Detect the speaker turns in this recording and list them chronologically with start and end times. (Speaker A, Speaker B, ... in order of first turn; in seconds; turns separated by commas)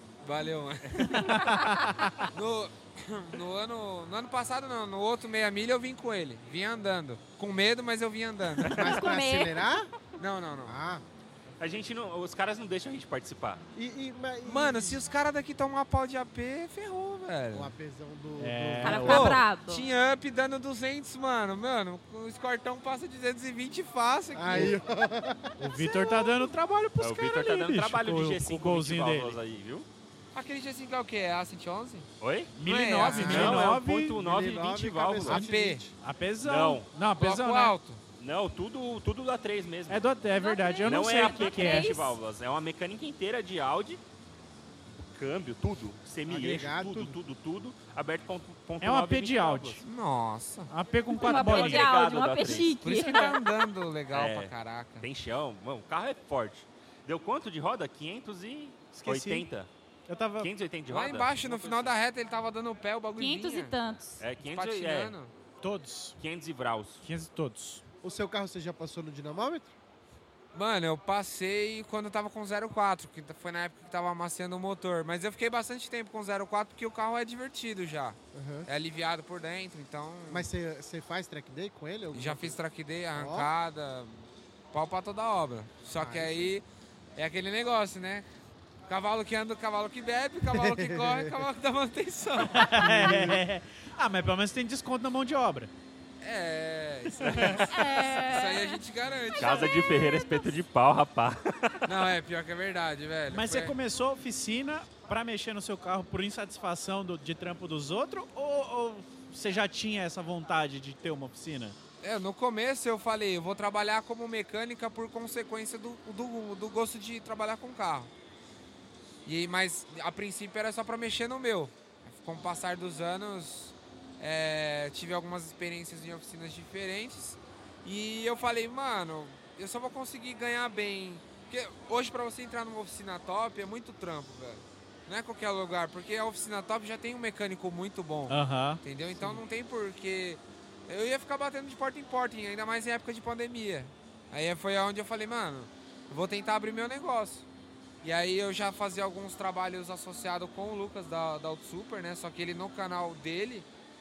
Speaker A: 0.2-1.4, Speaker B: 1.1-2.2, Speaker A: 2.3-9.0, Speaker C: 8.8-9.9, Speaker D: 8.9-9.6, Speaker A: 10.2-10.8, Speaker C: 10.7-11.0, Speaker E: 11.6-13.6, Speaker C: 13.8-14.9, Speaker A: 14.4-17.7, Speaker C: 17.5-19.2, Speaker B: 18.4-19.4, Speaker D: 18.8-19.8, Speaker A: 19.0-24.8, Speaker C: 24.3-25.5, Speaker B: 25.6-29.4, Speaker E: 27.0-29.9, Speaker A: 30.3-32.1, Speaker E: 32.2-32.5, Speaker B: 32.5-34.2, Speaker A: 32.6-33.6, Speaker E: 33.0-35.4, Speaker C: 34.2-35.9, Speaker A: 35.2-35.8, Speaker B: 36.0-37.8, Speaker E: 36.4-36.9, Speaker A: 37.1-38.0, Speaker E: 38.2-40.0, Speaker B: 39.9-41.9, Speaker D: 40.3-42.1, Speaker E: 40.8-44.0, Speaker E: 45.0-49.8, Speaker C: 46.3-47.2, Speaker B: 48.8-49.8, Speaker A: 49.8-50.7, Speaker B: 50.7-51.9, Speaker D: 51.1-53.4, Speaker E: 51.3-52.9, Speaker A: 52.8-55.0, Speaker E: 54.1-59.7, Speaker B: 58.9-59.5, Speaker B: 60.1-60.5, Speaker E: 60.4-61.9, Speaker A: 60.9-63.7, Speaker D: 63.2-64.2, Speaker E: 64.2-65.2, Speaker A: 64.3-65.3, Speaker B: 65.6-66.1, Speaker E: 66.2-67.0, Speaker B: 67.0-67.8, Speaker C: 68.0-69.7, Speaker A: 70.5-80.5, Speaker C: 78.3-78.7, Speaker C: 80.3-82.5, Speaker A: 82.1-84.1, Speaker C: 83.2-83.5, Speaker A: 84.7-86.6, Speaker C: 86.0-86.5, Speaker A: 87.2-88.2, Speaker A: 88.9-92.8, Speaker C: 90.5-91.4, Speaker B: 92.5-95.7, Speaker C: 92.8-93.4, Speaker A: 96.2-99.8, Speaker E: 97.2-97.6, Speaker D: 97.7-98.8, Speaker E: 99.4-101.8, Speaker D: 99.4-100.5, Speaker A: 101.8-103.7, Speaker B: 103.3-111.8, Speaker A: 112.0-118.1, Speaker A: 119.2-147.4, Speaker B: 138.3-138.8, Speaker A: 148.0-153.7